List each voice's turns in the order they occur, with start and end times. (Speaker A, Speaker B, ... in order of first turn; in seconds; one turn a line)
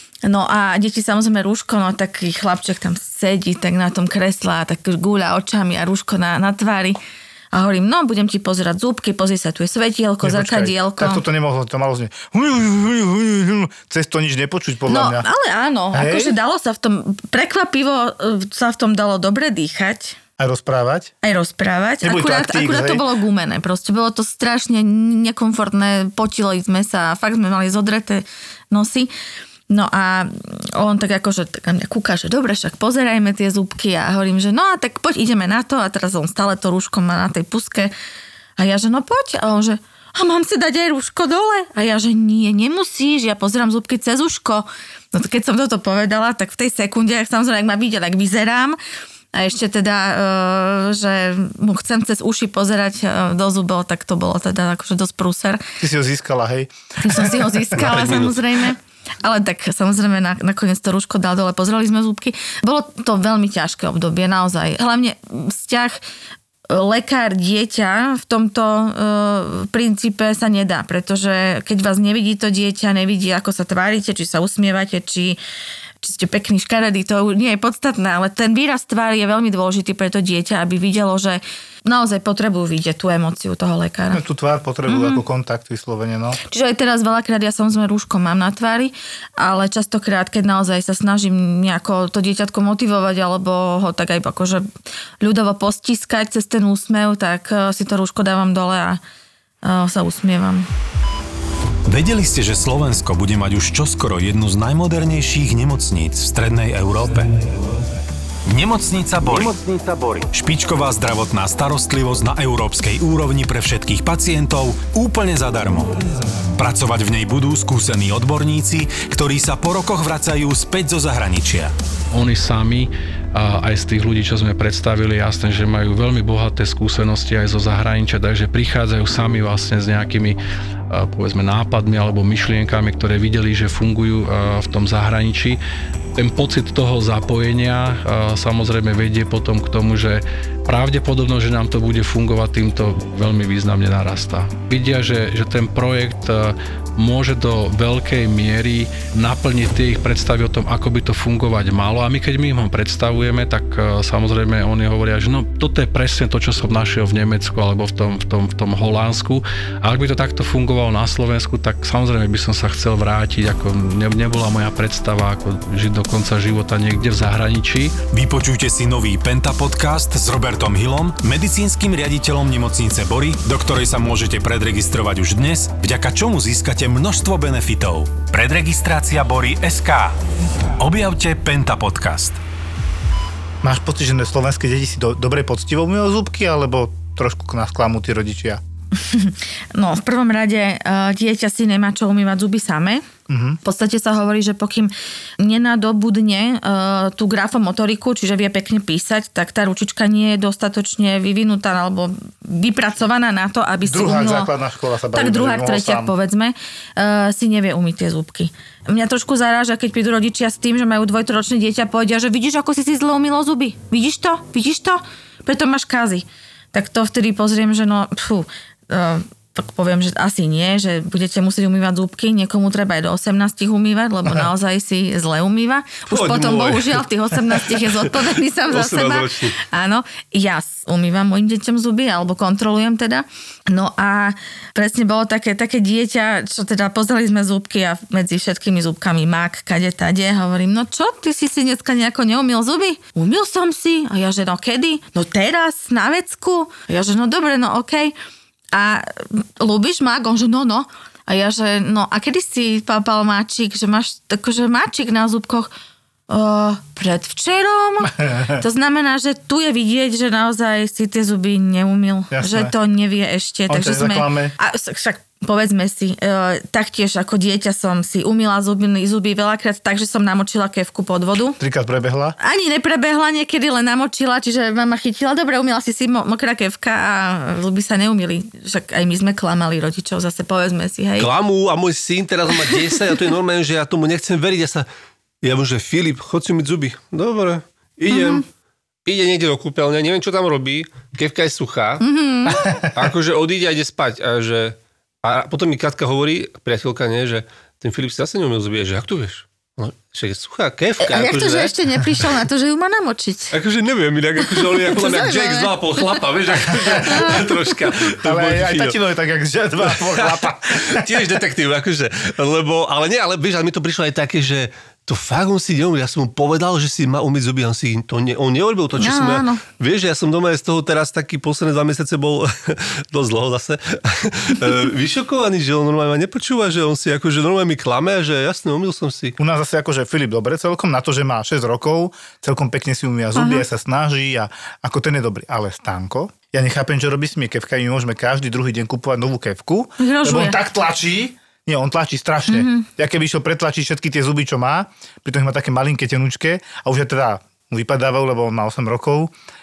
Speaker A: 0.2-7.0
Speaker A: 7.5-11.2
Speaker B: 10.2-15.3
Speaker A: 14.9-20.2
Speaker B: 15.9-16.4
Speaker B: 20.4-21.1
Speaker A: 21.2-29.1
Speaker B: 22.0-23.1
Speaker A: 29.7-37.9
Speaker A: 38.6-48.8
Speaker A: 49.3-55.6
Speaker B: 55.8-57.9
Speaker A: 57.0-66.0
Speaker C: 57.8-58.4
Speaker A: 66.7-75.4
Speaker A: 76.0-84.2
Speaker B: 84.1-86.4
Speaker A: 84.9-85.2
Speaker A: 86.5-94.7
Speaker A: 95.2-99.0
Speaker A: 99.6-100.7
Speaker D: 101.9-107.4
Speaker D: 108.5-116.0
Speaker D: 116.5-121.7
Speaker E: 122.1-130.4
Speaker E: 130.9-135.6
Speaker E: 136.2-168.0
Speaker D: 168.1-180.2
Speaker D: 180.8-182.4
Speaker B: 183.6-188.6
Speaker A: 189.0-193.1
Speaker B: 193.3-193.6
Speaker A: 193.6-204.5
Speaker B: 203.8-206.1
Speaker A: 205.1-248.2
Speaker C: 226.1-229.6
Speaker A: 248.7-255.7
Speaker A: 256.3-271.6
Speaker B: 258.1-258.6
Speaker B: 262.3-262.7
Speaker B: 263.7-264.6
Speaker B: 271.6-272.4
Speaker A: 272.4-281.3
Speaker C: 281.2-284.9
Speaker A: 282.7-283.0
Speaker C: 285.4-288.4
Speaker A: 288.1-288.4
Speaker C: 289.1-292.0
Speaker A: 292.0-292.8
Speaker C: 292.6-301.8
Speaker A: 301.0-303.6
Speaker C: 303.5-309.0
Speaker A: 304.4-306.1
Speaker A: 307.0-307.6
Speaker B: 308.2-311.3
Speaker C: 309.8-329.4
Speaker A: 319.0-319.6
Speaker B: 329.4-349.3
Speaker A: 333.4-333.6
Speaker A: 340.0-340.6
Speaker A: 342.5-342.9